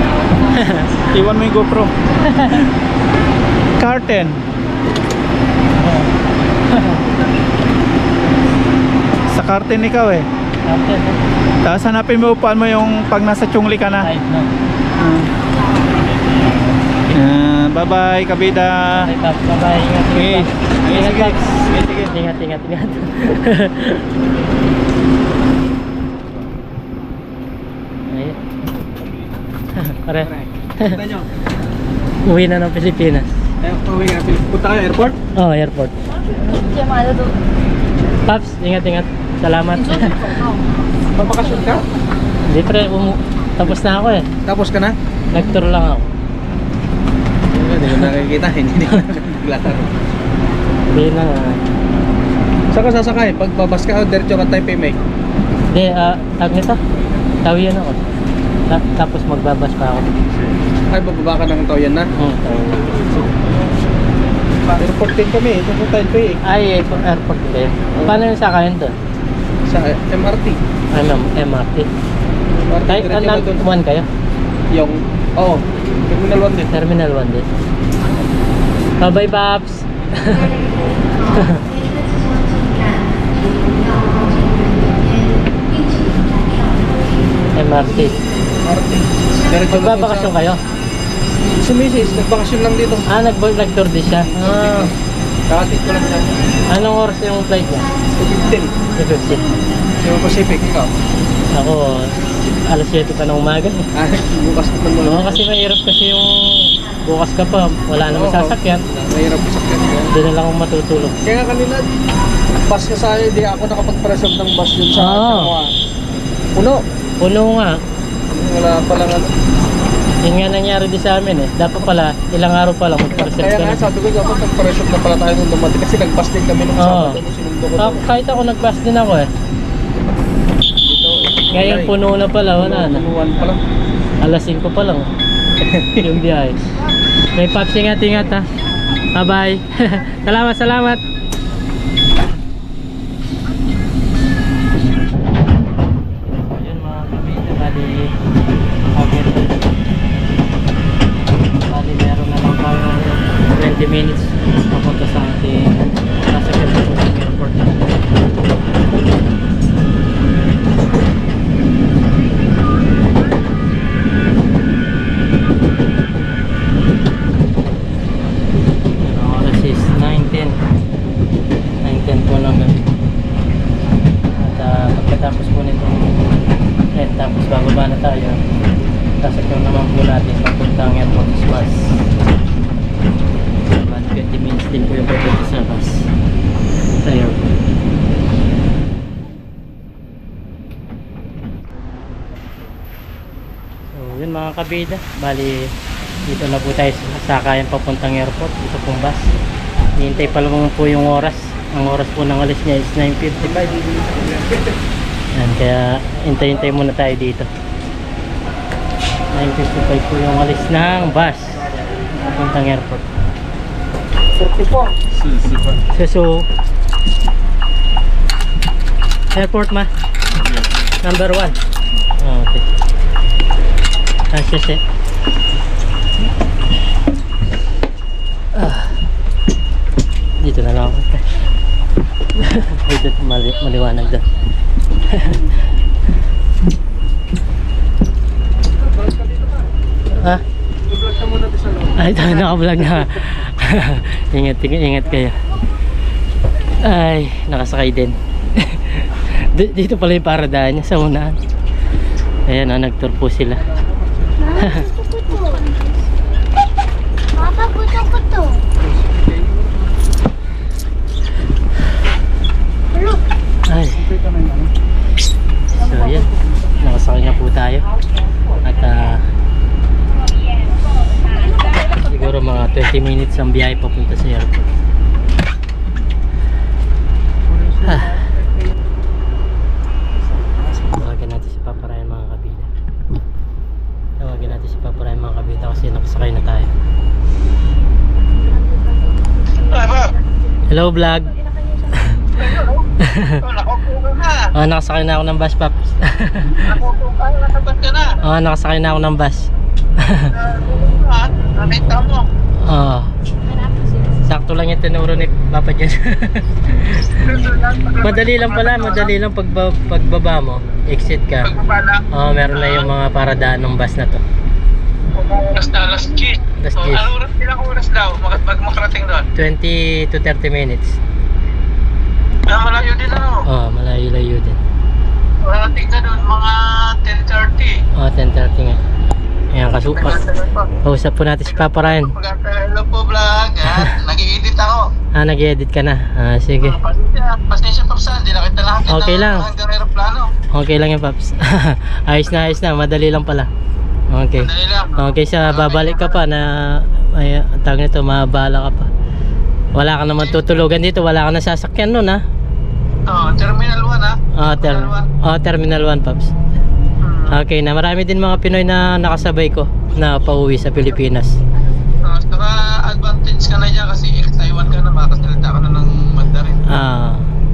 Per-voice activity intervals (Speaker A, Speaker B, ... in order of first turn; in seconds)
Speaker A: 0.5-0.9, 2.2-2.6, 5.8-6.1, 6.7-7.0, 10.6-11.2, 14.0-14.5, 19.0-24.1, 28.1-28.4, 29.8-31.0, 32.2-33.4, 35.3-35.9, 38.2-40.1, 42.5-44.3, 45.3-46.1, 50.9-51.6, 55.7-56.8, 57.4-58.1, 58.7-60.2, 62.1-62.7, 66.4-69.0, 70.9-71.9, 72.8-74.1, 76.7-77.5, 79.0-80.5, 81.3-81.6, 87.5-88.2, 89.7-90.6, 93.1-94.9, 96.7-97.9, 98.9-99.5, 101.5-103.8, 105.0-108.8, 110.1-111.2, 114.9-115.5, 117.2-117.7, 120.2-123.8, 126.8-127.2, 127.8-129.3, 131.5-133.0, 134.2-135.1, 136.0-136.6, 137.3-138.4, 139.1-141.0, 146.4-148.1, 148.9-149.6, 151.5-157.9, 169.0-170.6, 171.8-172.9, 174.4-176.2, 176.9-178.4, 179.2-181.9, 183.7-186.0, 187.0-187.6, 193.9-195.7, 196.2-199.3, 200.0-203.7, 205.3-207.5, 209.3-211.6, 212.1-213.1, 215.9-216.5, 219.3-219.9, 221.0-221.6, 222.2-222.6, 224.3-224.8, 228.5-229.0, 230.4-231.3, 232.3-234.2, 235.1-235.5, 241.9-245.4, 246.8-251.3, 252.5-253.6, 254.5-254.8, 263.7-264.0, 265.7-266.3, 266.8-267.8, 268.6-269.2, 271.9-274.7, 280.9-282.7, 284.2-286.7, 290.7-291.4, 293.0-293.4, 294.5-296.7, 298.2-299.5, 300.0-300.3, 302.6-303.1, 304.2-307.3, 308.0-311.5, 312.1-314.2, 316.6-317.1, 319.3-321.0, 323.4-324.6, 328.0-328.8, 329.5-330.2, 330.8-332.1, 333.6-334.0, 335.1-336.8, 338.9-339.5, 340.5-343.5, 344.1-348.9, 349.7-352.2, 354.3-356.3, 357.3-361.4, 366.7-367.3
Speaker B: 1.1-1.9, 3.8-4.4, 9.3-10.3, 11.6-14.1, 15.0-15.3, 17.1-19.1, 20.1-22.0, 215.3-215.6
Speaker C: 30.2-31.3, 33.6-35.2, 41.1-41.8, 44.4-44.9, 47.5-49.9, 52.7-55.0, 60.9-63.3, 64.7-66.4, 69.7-70.6, 72.7-73.7, 74.7-76.7, 88.6-90.3, 91.5-93.0, 94.2-94.9, 95.5-96.3, 98.1-98.8, 100.0-100.9, 103.9-105.4, 108.1-110.1, 111.2-111.9, 112.7-115.7, 118.3-119.3, 123.2-128.0, 130.8-131.9, 132.6-133.6, 135.7-136.1, 203.4-204.7, 214.3-215.0, 238.7-239.7, 240.9-243.4, 253.6-254.3, 258.8-259.8, 263.9-264.7, 277.5-278.5, 280.2-281.0
Speaker D: 36.3-37.3, 40.3-40.6, 254.4-256.1, 257.4-258.6, 262.9-263.2, 303.7-304.1
Speaker E: 289.6-290.1, 292.4-292.9, 293.4-294.5, 296.6-298.1, 300.3-302.3, 307.2-309.1, 311.4-312.9, 315.1-319.2, 322.5-323.4, 325.4-327.8, 329.9-330.7, 331.5-334.8, 336.6-340.3, 344.4-346.2, 350.2-350.5, 353.1-355.1, 357.0-357.3, 362.0-366.6